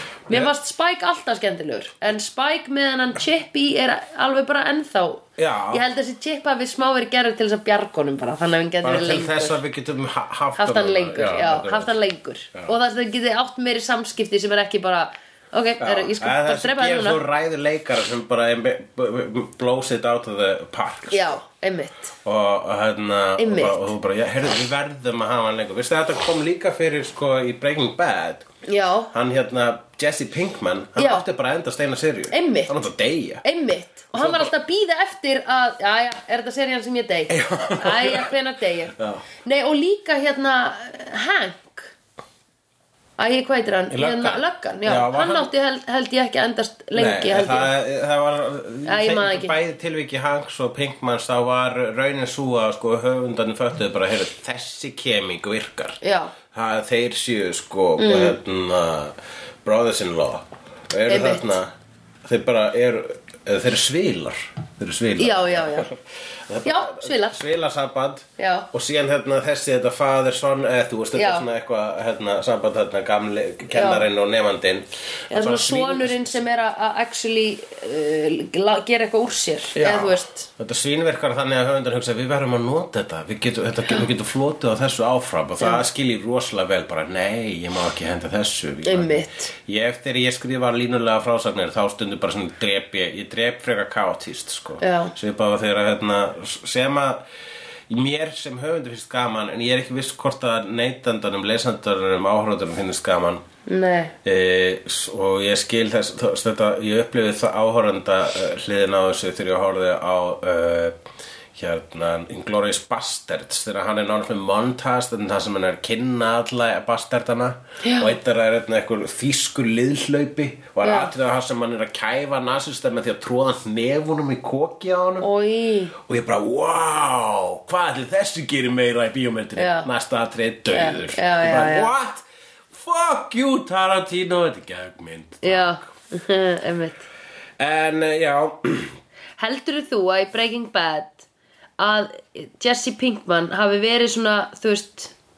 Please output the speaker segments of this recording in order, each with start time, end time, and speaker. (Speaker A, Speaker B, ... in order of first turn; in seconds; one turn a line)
Speaker A: 0.3-9.6
Speaker B: 5.4-5.8
Speaker B: 8.8-11.9
Speaker A: 10.6-17.2
Speaker B: 15.8-21.3
Speaker A: 21.1-22.1
Speaker B: 22.2-28.4
Speaker A: 23.4-23.9
Speaker A: 28.7-29.1
Speaker B: 29.1-33.4
Speaker A: 31.0-31.2
Speaker A: 32.3-32.8
Speaker A: 33.4-41.9
Speaker B: 34.1-34.5
Speaker B: 37.3-38.3
Speaker B: 39.0-39.2
Speaker A: 43.2-47.7
Speaker B: 43.9-45.5
Speaker B: 46.9-56.0
Speaker A: 48.8-49.6
Speaker A: 56.0-56.3
Speaker B: 56.5-61.7
Speaker A: 58.0-58.4
Speaker A: 61.1-61.5
Speaker B: 62.2-76.4
Speaker A: 65.2-65.9
Speaker A: 66.6-67.4
Speaker A: 68.4-68.7
Speaker A: 71.1-71.4
Speaker A: 73.7-74.1
Speaker A: 75.3-80.5
Speaker B: 79.7-97.2
Speaker A: 88.8-89.5
Speaker A: 94.8-95.1
Speaker B: 97.9-103.4
Speaker A: 103.7-104.1
Speaker B: 104.2-110.9
Speaker B: 111.5-125.3
Speaker A: 117.8-118.2
Speaker A: 120.8-121.1
Speaker A: 125.2-125.9
Speaker B: 126.0-135.8
Speaker A: 129.6-129.9
Speaker A: 130.7-131.9
Speaker A: 135.4-137.0
Speaker B: 137.6-138.9
Speaker A: 139.4-141.2
Speaker A: 141.8-145.1